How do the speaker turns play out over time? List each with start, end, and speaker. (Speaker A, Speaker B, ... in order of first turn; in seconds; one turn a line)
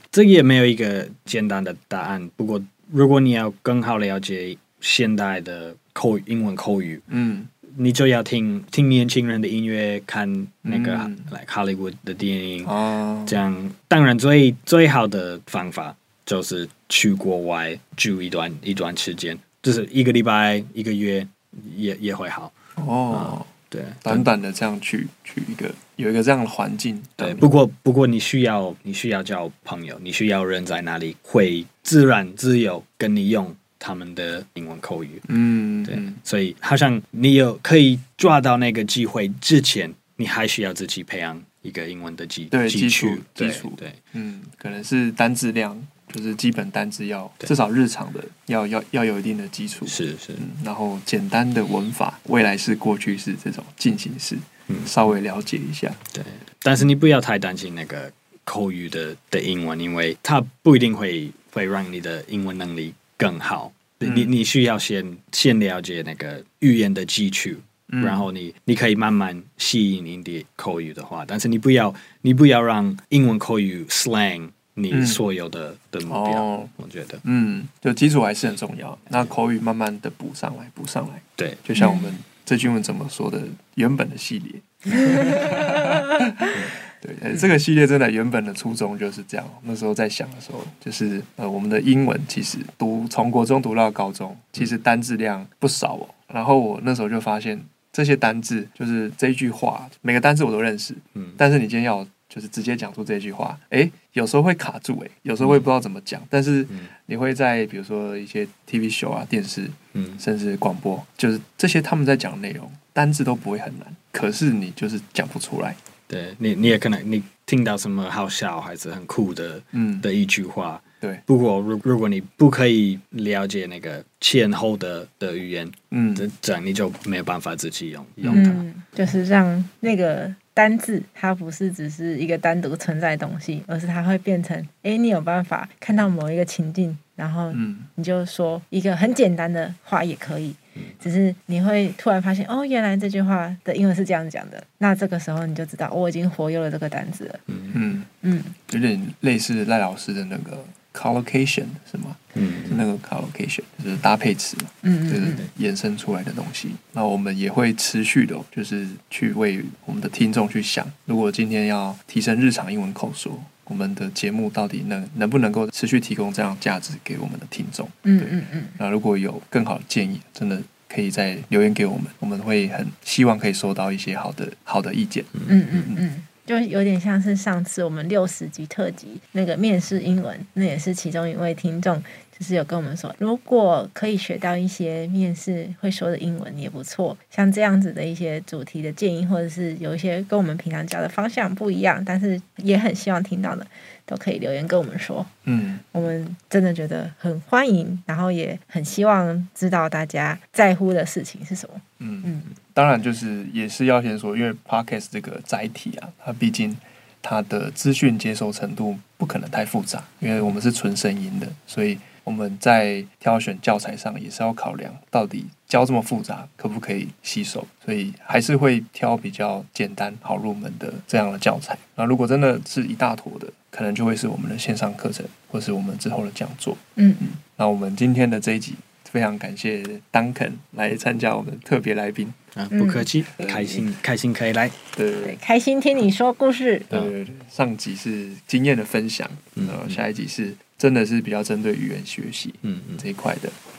Speaker A: 0.1-7.0
Speaker B: 7.1-7.5
Speaker A: 7.7-22.6
Speaker B: 10.7-11.3
Speaker B: 12.6-13.4
Speaker B: 22.8-23.5
Speaker A: 23.1-24.3
Speaker B: 24.0-27.5
Speaker A: 27.2-35.3
Speaker B: 35.3-36.2
Speaker A: 35.9-44.0
Speaker B: 42.5-56.0
Speaker A: 49.9-50.4
Speaker A: 56.1-77.2
Speaker B: 64.0-64.3
Speaker B: 67.9-68.3
Speaker B: 74.9-75.2
Speaker B: 76.1-76.7
Speaker B: 77.2-115.8
Speaker C: 81.8-82.1
Speaker A: 105.4-105.7
Speaker A: 109.9-110.2
Speaker A: 116.1-128.7
Speaker B: 119.7-120.1
Speaker B: 125.9-126.3
Speaker B: 128.2-128.6
Speaker C: 128.3-147.4
Speaker B: 137.5-137.9
Speaker A: 147.5-147.8
Speaker B: 147.7-148.1
Speaker C: 148.2-148.6
Speaker B: 148.7-176.0
Speaker A: 152.3-152.8
Speaker C: 154.8-155.5
Speaker C: 168.1-168.8
Speaker C: 175.5-195.3
Speaker B: 195.5-195.9
Speaker C: 195.9-202.5
Speaker B: 202.0-232.4
Speaker C: 227.0-227.3
Speaker A: 232.6-234.8
Speaker C: 232.7-233.8
Speaker B: 235.0-235.4
Speaker C: 235.2-236.9
Speaker B: 236.9-243.5
Speaker A: 239.6-240.0
Speaker A: 242.6-243.0